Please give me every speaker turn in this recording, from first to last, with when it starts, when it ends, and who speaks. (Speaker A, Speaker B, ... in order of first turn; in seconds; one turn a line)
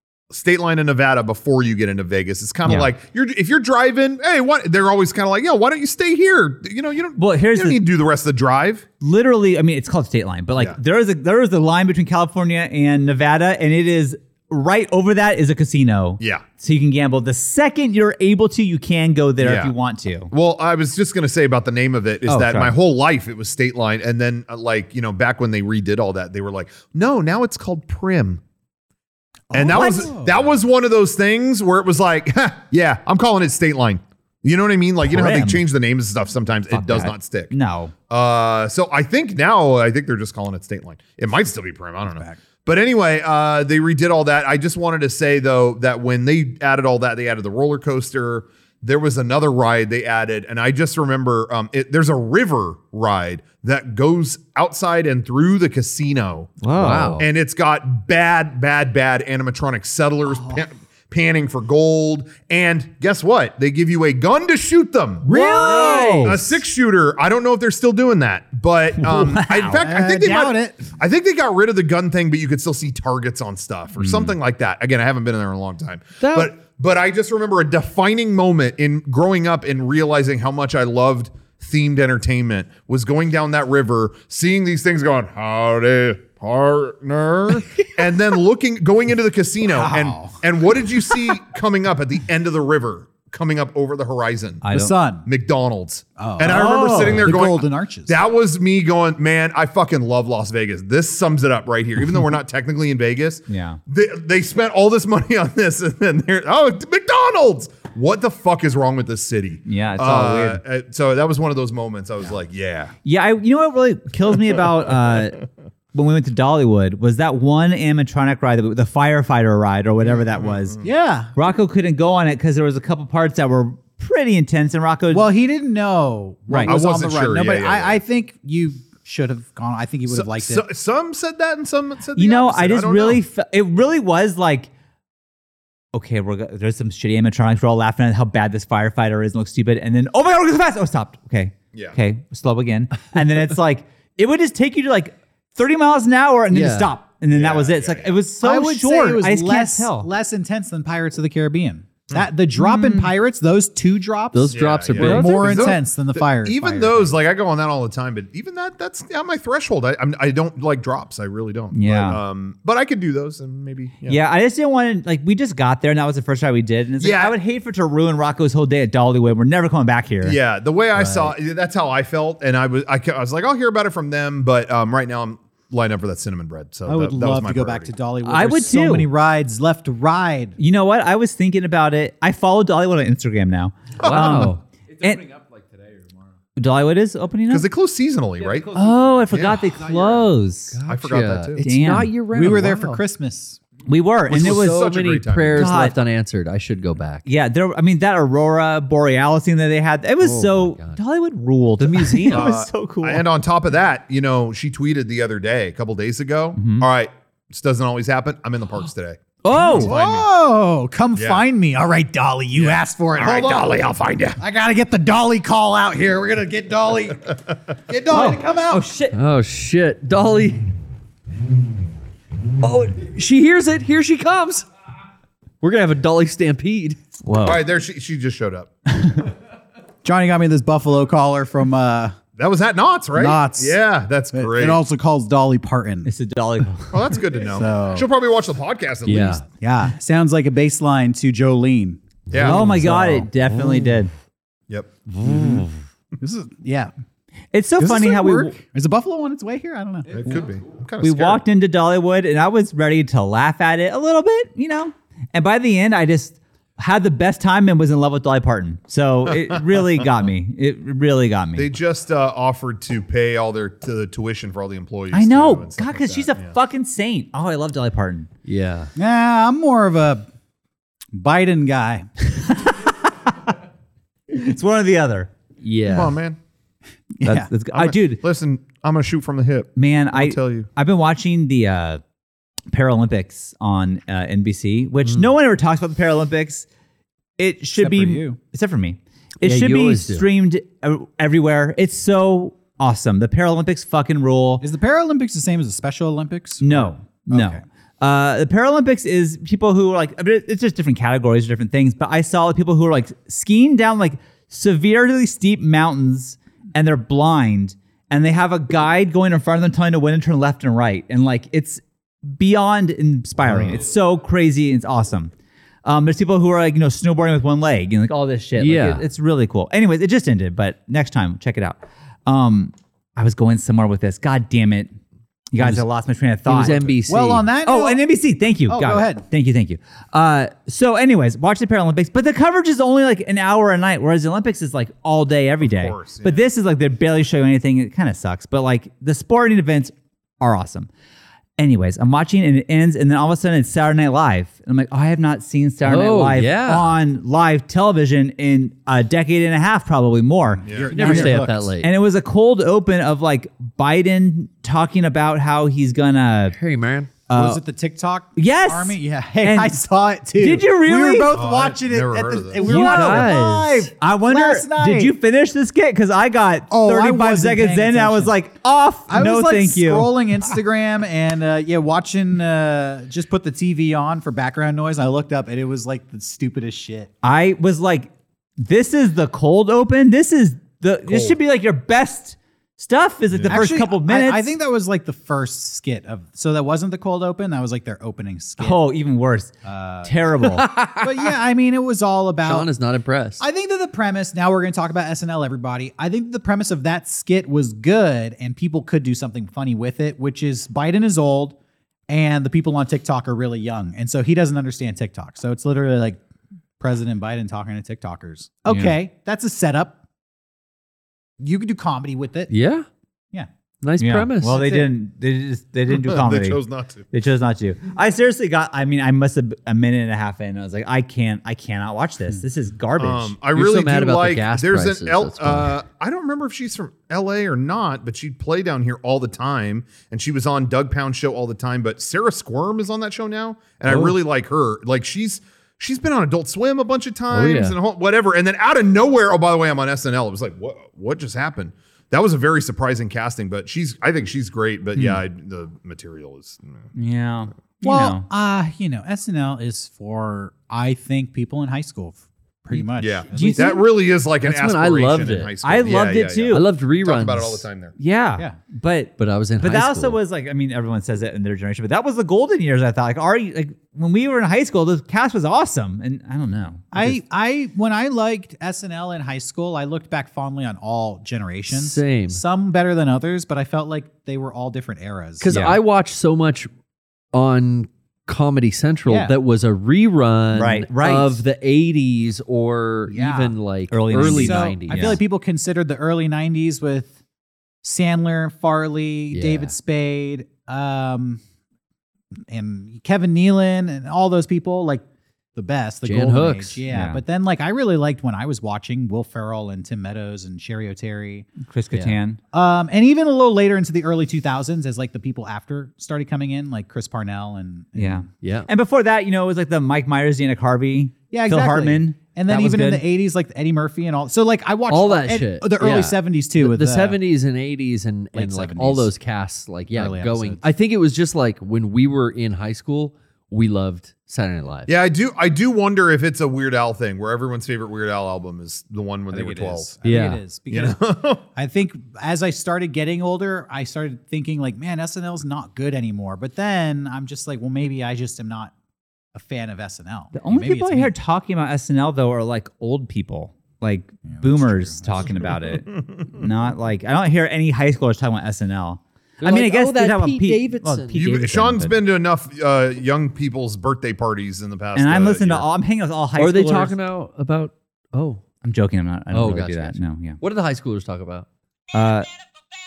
Speaker A: 0.3-8.8
Speaker B: 7.2-7.8
Speaker B: 9.0-20.3
Speaker A: 16.2-16.4
Speaker A: 19.4-19.7
Speaker A: 20.3-28.4
Speaker B: 22.3-22.7
Speaker C: 29.5-30.4
Speaker A: 29.5-37.5
Speaker B: 35.0-35.6
Speaker B: 36.7-37.9
Speaker A: 38.1-94.6
Speaker C: 42.0-42.4
Speaker B: 56.6-57.2
Speaker D: 56.7-57.2
Speaker C: 65.2-66.4
Speaker B: 65.2-66.4
Speaker D: 65.8-66.1
Speaker B: 69.0-69.8
Speaker C: 69.7-70.9
Speaker C: 89.7-90.4
Speaker B: 94.6-94.9
Speaker C: 94.7-95.3
Speaker A: 95.2-112.9
Speaker C: 96.2-98.2
Speaker B: 96.7-97.1
Speaker B: 103.5-103.8
Speaker B: 109.7-110.6
Speaker B: 113.0-115.4
Speaker B: 115.9-120.8
Speaker A: 120.0-120.8
Speaker C: 120.8-121.3
Speaker B: 121.3-125.3
Speaker C: 125.1-130.7
Speaker A: 126.7-128.0
Speaker A: 130.1-133.2
Speaker B: 132.1-134.7
Speaker B: 135.9-150.1
Speaker A: 141.7-142.0
Speaker D: 146.5-146.9
Speaker A: 147.3-148.2
Speaker C: 148.4-157.1
Speaker B: 152.6-153.1
Speaker D: 154.3-155.8
Speaker A: 154.5-164.2
Speaker B: 161.7-162.2
Speaker B: 164.1-170.4
Speaker A: 167.0-167.4
Speaker A: 170.2-177.9
Speaker C: 170.9-171.3
Speaker C: 176.8-180.6
Speaker B: 178.2-179.1
Speaker B: 180.6-185.2
Speaker A: 184.0-184.5
Speaker D: 184.0-184.6
Speaker E: 184.1-186.4
Speaker B: 186.6-187.7
Speaker A: 187.5-188.7
Speaker E: 188.4-190.3
Speaker B: 188.7-190.8
Speaker A: 189.3-189.6
Speaker D: 190.7-193.0
Speaker A: 190.9-191.6
Speaker B: 191.6-192.1
Speaker C: 192.3-193.6
Speaker B: 193.8-194.9
Speaker A: 194.3-195.8
Speaker D: 194.3-197.2
Speaker B: 195.5-195.9
Speaker B: 197.2-203.2
Speaker D: 200.2-201.0
Speaker D: 201.8-202.5
Speaker A: 202.3-210.3
Speaker B: 206.6-206.9
Speaker B: 209.4-209.9
Speaker C: 209.7-213.7
Speaker A: 211.1-211.4
Speaker A: 212.5-214.4
Speaker C: 214.4-217.3
Speaker A: 217.3-217.7
Speaker C: 217.9-218.9
Speaker B: 218.1-219.1
Speaker D: 219.1-220.7
Speaker D: 222.6-224.7
Speaker D: 225.6-227.0
Speaker B: 227.2-227.6
Speaker A: 227.4-228.7
Speaker C: 230.0-232.2
Speaker A: 232.4-234.8
Speaker C: 233.1-233.8
Speaker C: 234.3-236.1
Speaker B: 236.1-237.1
Speaker A: 236.9-239.5
Speaker C: 237.5-238.1
Speaker D: 239.1-239.4
Speaker C: 239.6-243.3
Speaker A: 242.3-242.6
Speaker B: 242.4-244.1
Speaker D: 243.4-243.9
Speaker A: 244.7-244.9
Speaker D: 245.1-245.7
Speaker C: 245.2-245.6
Speaker C: 246.2-246.9
Speaker B: 247.5-248.6
Speaker C: 247.8-250.1
Speaker A: 250.1-251.4
Speaker E: 250.1-250.7
Speaker B: 251.0-261.7
Speaker A: 259.3-260.1
Speaker A: 261.5-266.6
Speaker B: 265.1-268.3
Speaker D: 268.4-268.9
Speaker C: 268.9-270.2
Speaker C: 271.1-272.1
Speaker B: 272.3-273.3
Speaker B: 274.3-275.3
Speaker D: 275.6-276.1
Speaker A: 275.9-276.4
Speaker C: 277.2-277.5
Speaker B: 277.2-278.2
Speaker A: 277.7-280.7
Speaker B: 279.8-282.0
Speaker B: 282.7-286.7
Speaker B: 287.4-294.6
Speaker C: 287.7-288.4
Speaker D: 289.4-290.3
Speaker C: 294.6-297.6
Speaker B: 296.6-315.3
Speaker D: 313.4-313.8
Speaker B: 315.8-324.9
Speaker D: 318.6-319.0
Speaker B: 325.5-326.9
Speaker D: 325.6-325.8
Speaker D: 326.4-327.4
Speaker C: 327.1-328.0
Speaker B: 327.6-340.9
Speaker C: 328.7-329.2
Speaker A: 335.6-336.5
Speaker B: 341.6-356.6
Speaker D: 345.8-346.9
Speaker C: 350.6-351.7
Speaker A: 350.6-351.0
Speaker D: 350.9-351.9
Speaker D: 356.5-357.3
Speaker C: 357.3-365.1
Speaker B: 357.3-357.6
Speaker B: 358.4-359.7
Speaker B: 360.4-361.3
Speaker A: 361.3-362.7
Speaker B: 362.6-370.1
Speaker D: 362.6-363.8
Speaker C: 366.7-368.3
Speaker C: 369.1-377.1
Speaker B: 377.2-384.5
Speaker A: 381.1-381.4
Speaker A: 383.3-383.7
Speaker C: 383.5-388.8
Speaker B: 388.6-389.5
Speaker C: 389.6-390.1
Speaker B: 390.1-390.6
Speaker D: 390.4-391.3
Speaker C: 390.9-392.7
Speaker D: 392.4-393.4
Speaker C: 393.4-401.6
Speaker C: 402.1-406.2
Speaker C: 406.8-410.0
Speaker B: 408.7-408.9
Speaker C: 411.4-412.5
Speaker D: 412.5-412.9
Speaker D: 413.8-414.6
Speaker B: 414.0-423.4
Speaker C: 414.4-414.9
Speaker A: 415.9-417.1
Speaker A: 423.0-446.9
Speaker D: 423.5-425.8
Speaker D: 433.9-434.1
Speaker D: 437.3-437.8
Speaker B: 446.9-448.2
Speaker C: 447.8-453.8
Speaker B: 452.7-453.8
Speaker A: 453.0-457.9
Speaker D: 454.4-455.9
Speaker B: 455.6-456.6
Speaker D: 456.5-457.6
Speaker B: 458.0-467.1
Speaker D: 459.2-460.2
Speaker C: 466.9-475.5
Speaker D: 471.7-472.4
Speaker D: 475.4-476.7
Speaker B: 475.5-475.8
Speaker D: 477.3-485.2
Speaker C: 479.1-479.3
Speaker B: 480.5-481.4
Speaker C: 483.1-483.5
Speaker B: 483.9-485.2
Speaker C: 484.1-487.1
Speaker C: 487.8-491.4
Speaker D: 489.3-489.7
Speaker C: 492.5-495.0
Speaker C: 495.5-501.5
Speaker D: 496.0-496.8
Speaker B: 496.9-497.2
Speaker B: 501.6-502.4
Speaker C: 502.5-508.2
Speaker B: 507.9-513.0
Speaker D: 508.4-508.7
Speaker C: 511.3-517.2
Speaker D: 514.9-524.9
Speaker C: 518.3-519.1
Speaker C: 519.9-520.6
Speaker A: 524.9-530.0
Speaker C: 529.3-538.7
Speaker D: 530.0-530.4
Speaker A: 530.7-531.4
Speaker C: 539.3-541.1
Speaker B: 540.3-552.0
Speaker C: 544.2-545.5
Speaker D: 549.4-551.2
Speaker A: 551.1-555.6
Speaker B: 554.9-556.9
Speaker D: 556.4-558.4
Speaker B: 558.6-560.4
Speaker D: 559.3-561.5
Speaker B: 561.9-562.3